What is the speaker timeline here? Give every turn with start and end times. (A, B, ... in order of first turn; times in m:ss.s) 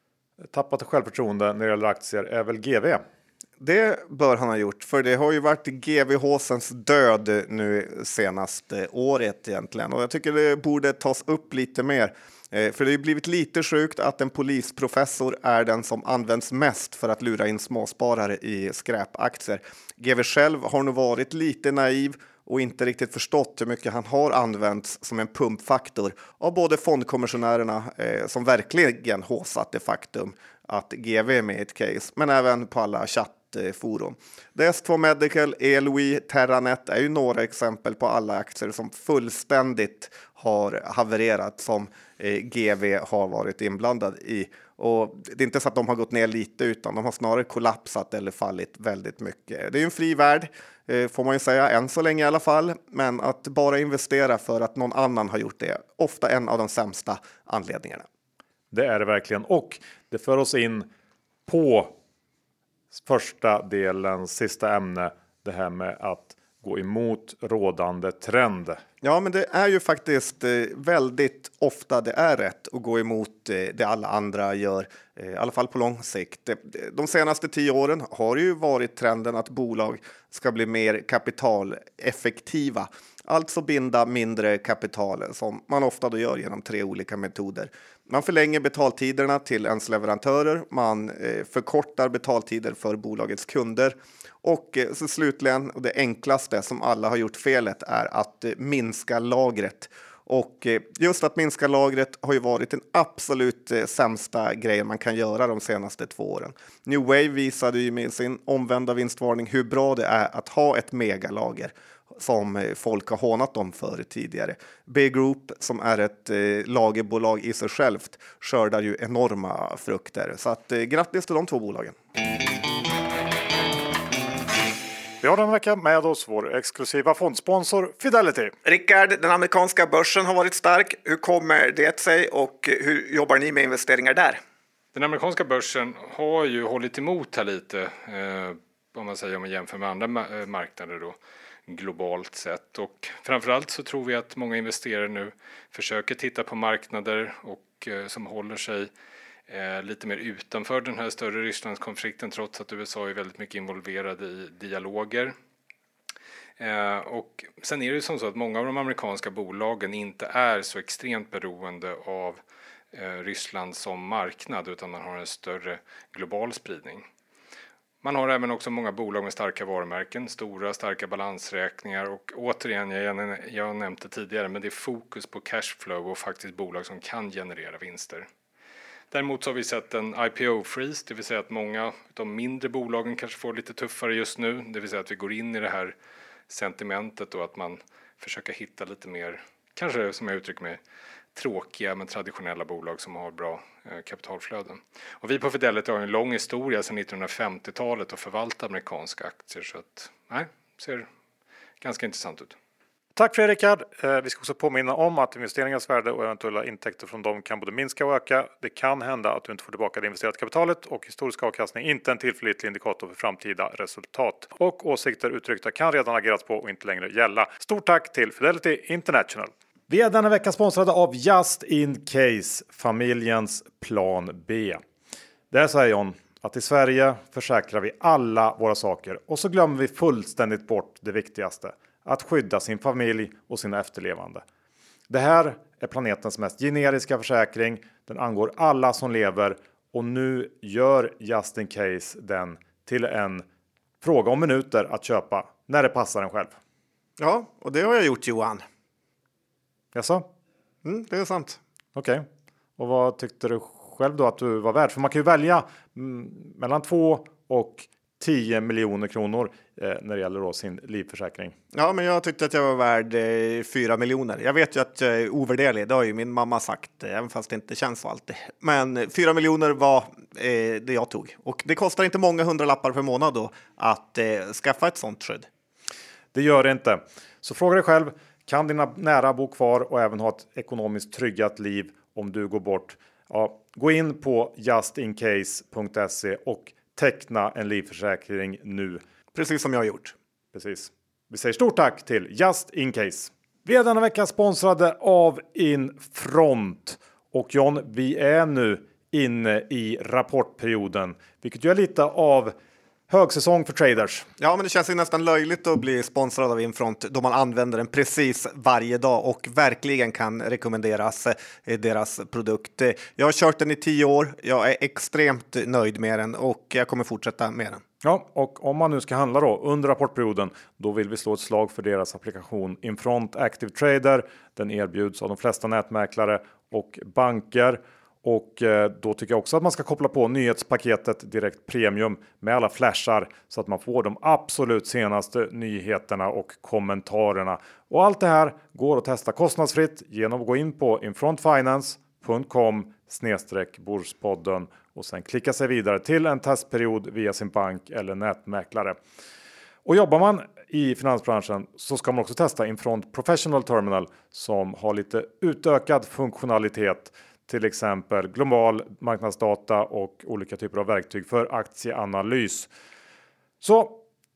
0:00.5-0:03.0 A
0:03.6-0:58.0 B
0:58.7-1:00.9 A
1:01.4-1:01.9 A
1:02.9-1:08.8 A
1:09.0-2:02.0 B
2:05.2-2:08.5 A
2:08.6-2:14.4 B
2:14.9-2:28.9 C
2:29.5-2:35.3 C
2:36.6-2:42.4 C
2:42.9-2:47.0 C
2:48.0-2:58.3 C
2:59.1-3:05.9 C
3:06.5-3:10.8 C
3:11.4-3:21.1 C
3:21.8-3:22.6 C
3:23.2-3:44.8 A
3:45.5-3:54.4 A
3:55.1-4:03.4 A
4:04.0-4:06.6 A
4:07.2-4:08.6 B
4:09.9-4:10.3 A
4:10.8-4:11.6 B
4:11.9-4:12.2 A
4:12.8-4:21.6 A
4:21.7-4:35.5 B
4:36.3-4:49.0 A
4:49.4-4:50.1 B
4:50.5-5:02.5 A
5:03.1-5:04.2 A
5:04.4-5:17.8 B
5:18.0-5:49.0 A
5:49.8-6:02.7 A
6:03.6-6:04.0 A